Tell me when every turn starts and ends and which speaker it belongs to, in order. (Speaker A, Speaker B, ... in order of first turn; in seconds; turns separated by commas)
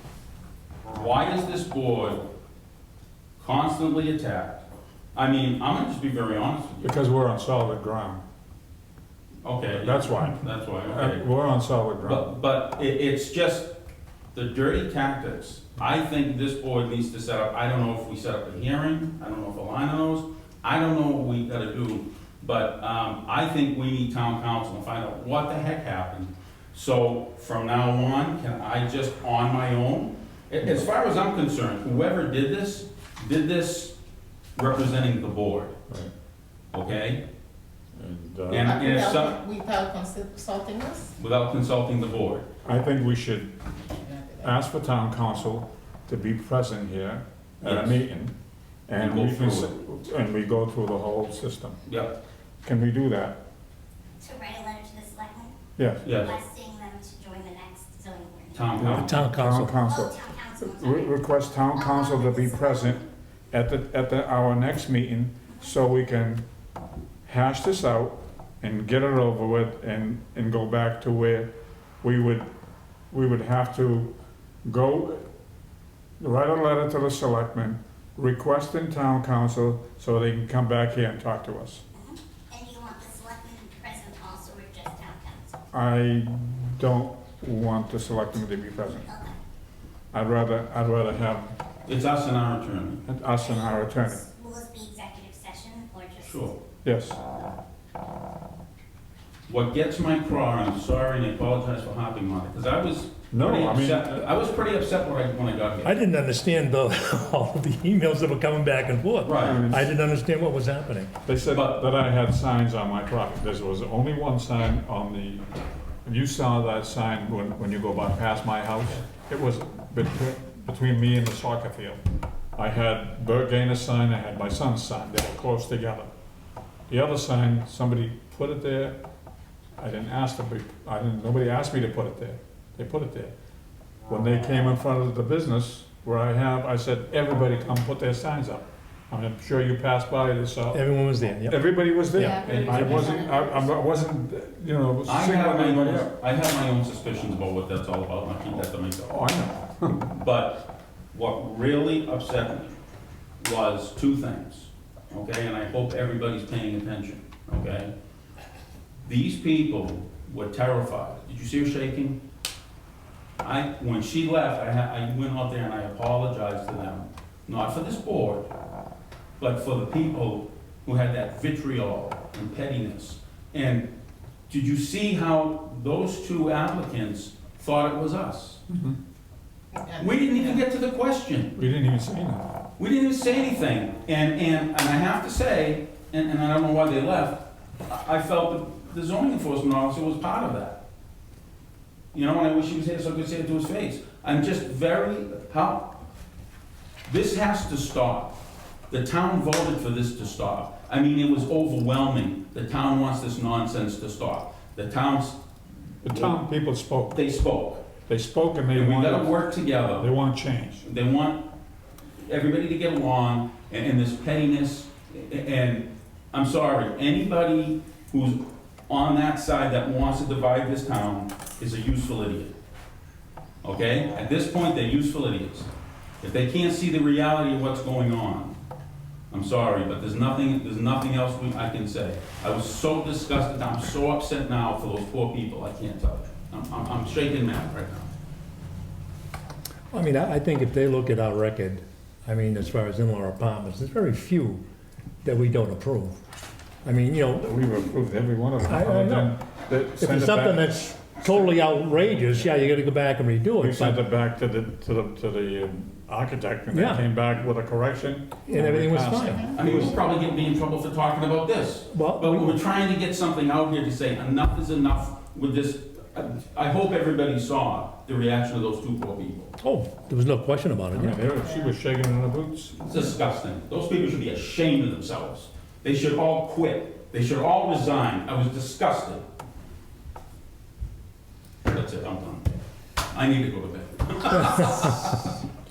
Speaker A: 0.9-2.2, Speaker A: 3.4-6.9, Speaker B: 6.8-8.2, Speaker A: 9.4-11.2, Speaker B: 9.7-12.3, Speaker A: 12.0-13.7, Speaker A: 14.3-33.9, Speaker A: 34.5-35.8, Speaker A: 36.7-37.2, Speaker B: 37.9-38.8, Speaker A: 38.5-39.4, Speaker C: 38.6-41.1, Speaker A: 41.2-42.5, Speaker B: 42.6-43.6, Speaker C: 43.9-44.5, Speaker B: 44.4-48.3, Speaker A: 47.6-48.0, Speaker B: 48.9-51.8, Speaker A: 49.0-49.7, Speaker A: 51.9-52.1, Speaker B: 52.6-53.4, Speaker D: 54.2-55.5, Speaker B: 55.8-56.1, Speaker A: 56.0-56.3, Speaker D: 56.1-58.9, Speaker A: 58.5-59.2, Speaker B: 58.8-66.4, Speaker E: 58.9-59.7, Speaker D: 59.8-61.2, Speaker D: 61.7-63.1, Speaker D: 65.5-65.7, Speaker B: 67.2-71.5, Speaker B: 72.0-72.5, Speaker B: 73.1-74.1, Speaker B: 74.6-75.2, Speaker B: 76.2-81.8, Speaker D: 81.9-85.6, Speaker B: 85.7-89.1, Speaker D: 88.8-89.4, Speaker B: 90.1-91.5, Speaker A: 91.9-93.0, Speaker B: 93.1-94.2, Speaker D: 93.4-96.6, Speaker A: 96.2-96.5, Speaker B: 96.8-97.2, Speaker A: 99.5-106.0, Speaker B: 103.3-104.1, Speaker E: 105.8-111.1, Speaker A: 109.2-109.6, Speaker B: 109.4-109.9, Speaker B: 111.2-115.4, Speaker A: 111.5-111.8, Speaker B: 116.0-122.0, Speaker B: 122.5-126.1, Speaker B: 126.9-129.0, Speaker B: 129.8-133.3, Speaker B: 134.1-140.8, Speaker E: 140.7-143.2, Speaker B: 141.5-146.1, Speaker C: 142.2-143.4, Speaker A: 145.1-149.2, Speaker B: 149.1-150.1, Speaker A: 150.0-152.7, Speaker A: 153.4-157.9, Speaker A: 159.0-162.2, Speaker A: 163.4-168.5, Speaker A: 169.4-173.9, Speaker A: 174.5-178.6, Speaker B: 178.7-179.0, Speaker C: 179.7-180.6, Speaker A: 180.0-181.5, Speaker B: 181.6-182.4, Speaker A: 182.8-190.8, Speaker A: 192.1-195.9, Speaker A: 197.1-198.3, Speaker A: 198.9-205.4, Speaker B: 206.0-207.2, Speaker A: 206.1-206.4, Speaker A: 207.1-207.8, Speaker B: 208.1-209.3, Speaker A: 208.7-210.1, Speaker B: 210.0-210.8, Speaker A: 210.8-211.4, Speaker A: 212.2-222.5, Speaker A: 223.6-225.7, Speaker A: 226.2-228.5, Speaker A: 229.3-238.1, Speaker E: 239.9-244.6, Speaker E: 245.2-246.2, Speaker E: 246.8-247.5, Speaker B: 247.4-252.6, Speaker E: 248.6-249.4, Speaker E: 250.0-254.0, Speaker B: 253.6-260.0, Speaker E: 256.7-257.0, Speaker E: 258.5-259.5, Speaker A: 259.5-269.5, Speaker E: 261.9-262.6, Speaker E: 269.6-271.2, Speaker B: 270.9-273.1, Speaker A: 272.8-279.2, Speaker A: 281.6-282.5, Speaker A: 283.1-285.3